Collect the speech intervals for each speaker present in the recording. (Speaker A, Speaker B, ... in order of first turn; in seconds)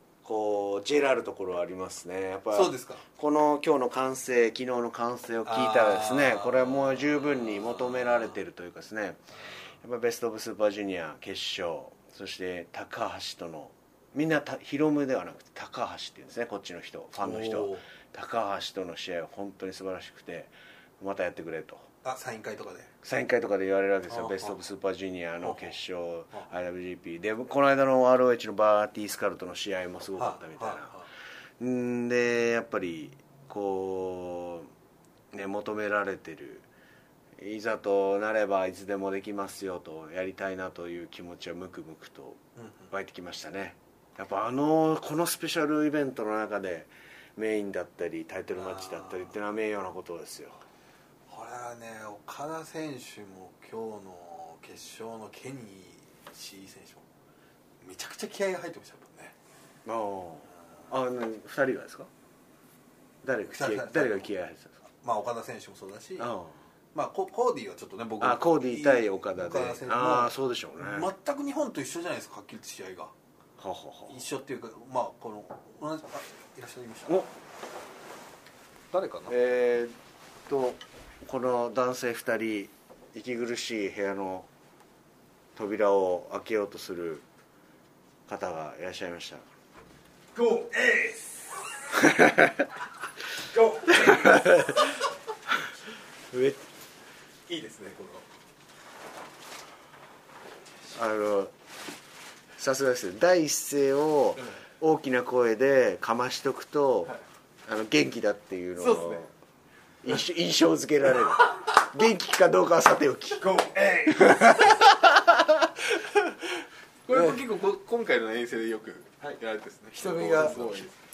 Speaker A: 0.2-9.2, 9.8-21.9, 23.0-30.9, 31.6-34.7, 35.3-36.7, 37.4-42.4, 42.9-50.6, 59.8-62.1, 63.2-64.7, 66.2-66.6, 68.2-71.1, 73.6-74.1, 79.3-79.9, 80.5-84.5, 85.5-87.2, 88.3-89.5, 92.0-92.7, 93.9-95.0, 96.3-96.6, 100.9-101.5, 102.6-107.1, 107.7-109.3, 110.0-113.5, 114.1-116.3, 119.9-120.9
Speaker B: 2.5-3.0, 5.5-8.3, 17.1-17.8, 22.0-22.9, 24.1-24.6, 25.4-25.7, 30.2-31.1, 42.6-42.9, 48.5-49.3, 51.3-57.0, 57.8-59.3, 63.5-64.3, 65.0-66.3, 66.9-73.1, 74.1-77.3, 78.9-79.3, 97.5-98.2, 108.8-109.2, 117.1-120.9
Speaker C: 90.4-91.1, 93.6-94.1, 113.4-114.5